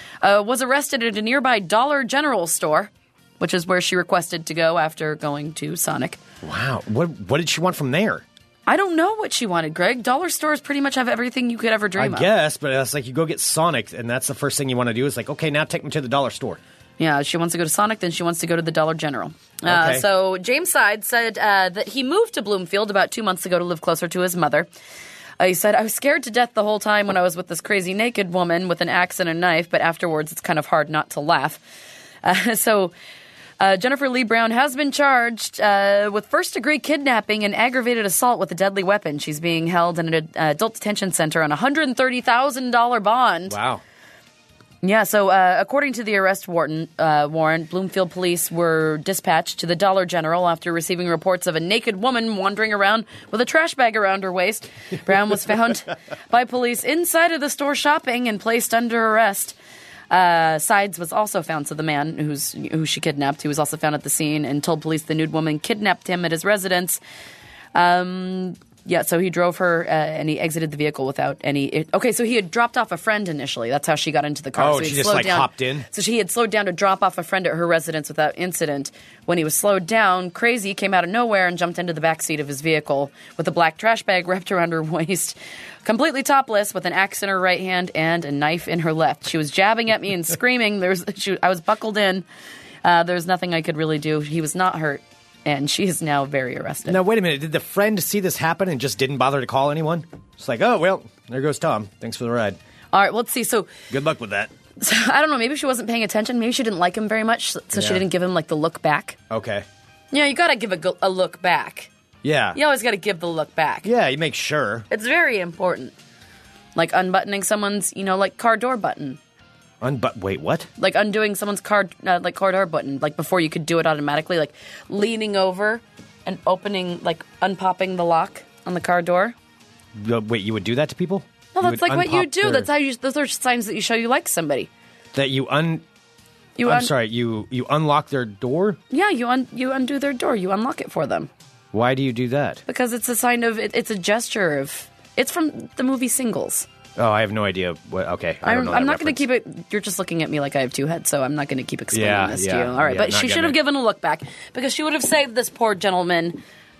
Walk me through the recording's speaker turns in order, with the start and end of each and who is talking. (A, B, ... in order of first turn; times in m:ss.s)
0:00.2-0:06.2 A
0:06.4-0:08.2 B
0:08.7-0:12.3 A
0:12.0-0:16.6 B
0:17.0-0:24.7 A
0:19.6-0:20.0 B
0:25.4-0:31.6 A
0:32.2-0:32.9 A
0:33.6-0:43.6 A
0:43.5-0:43.8 B
0:44.8-0:59.6 A
1:00.1-1:07.0 A
1:07.7-1:32.2 A
1:14.6-1:15.8 B
1:32.8-1:37.0 A
1:36.9-1:42.6 B
1:42.9-1:43.7 A
1:43.9-1:44.5 B
1:44.8-1:49.2 A
1:47.7-1:48.0 B
1:49.3-1:49.6 B
1:50.1-1:51.9 A
1:52.2-1:52.6 B
1:52.5-1:53.9 A
1:53.8-1:54.9 B
1:54.9-1:55.9 A
1:56.7-1:59.2 A
1:59.8-2:00.7 B
2:00.8-2:09.3 A
2:09.9-2:12.7 B
2:11.5-2:14.7 A
2:15.1-2:15.8 B
2:16.6-2:16.9 A
2:16.6-2:18.8 B
2:18.9-2:21.3 A
2:21.7-2:22.6 B
2:22.7-2:26.7 A
2:27.0-2:29.2 B
2:28.4-2:36.4 A
2:31.9-2:33.6 B